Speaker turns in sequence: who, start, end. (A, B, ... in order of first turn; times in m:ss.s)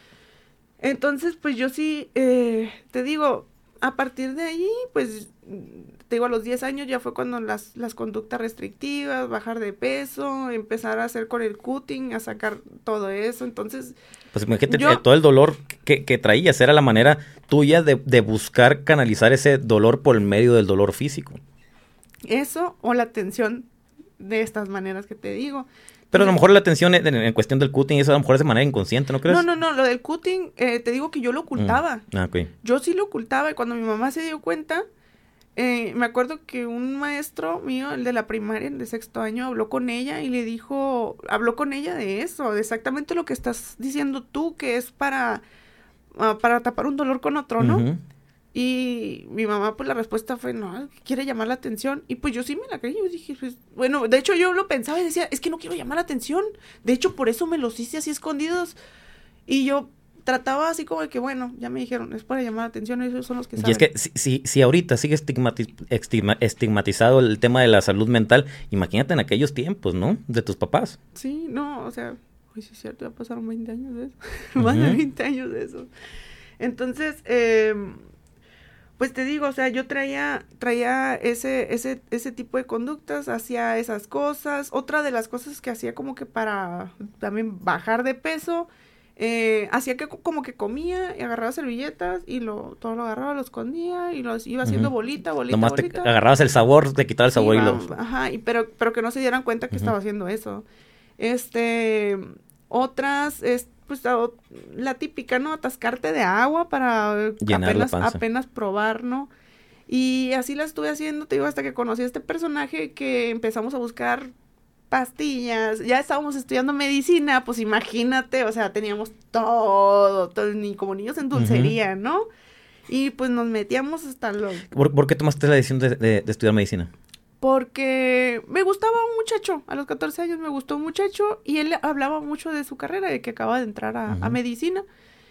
0:00.8-0:14.0 A
0:14.3-0:21.4 B
0:14.7-0:15.0 A
0:22.2-0:23.7 A
0:24.2-0:26.4 A
0:26.1-0:29.4 B
0:29.3-0:32.0 A
0:31.6-0:32.5 B
0:32.6-0:34.8 A
0:35.6-0:45.4 A
0:46.1-0:47.8 A
0:47.6-0:48.0 B
0:48.5-0:58.8 A
0:59.5-1:03.9 A
1:03.6-1:11.0 B
1:11.1-1:15.9 A
1:14.6-1:15.0 B
1:16.6-1:18.0 A
1:19.0-1:36.1 A
1:34.6-1:34.9 B
1:35.5-1:37.8 B
1:37.3-1:40.6 A
1:41.2-1:49.3 A
1:47.4-1:48.2 B
1:49.9-1:54.3 A
1:54.9-2:02.3 A
2:01.3-2:01.7 B
2:02.9-2:04.6 A
2:04.7-2:06.9 B
2:07.4-2:14.8 A
2:14.1-2:14.4 B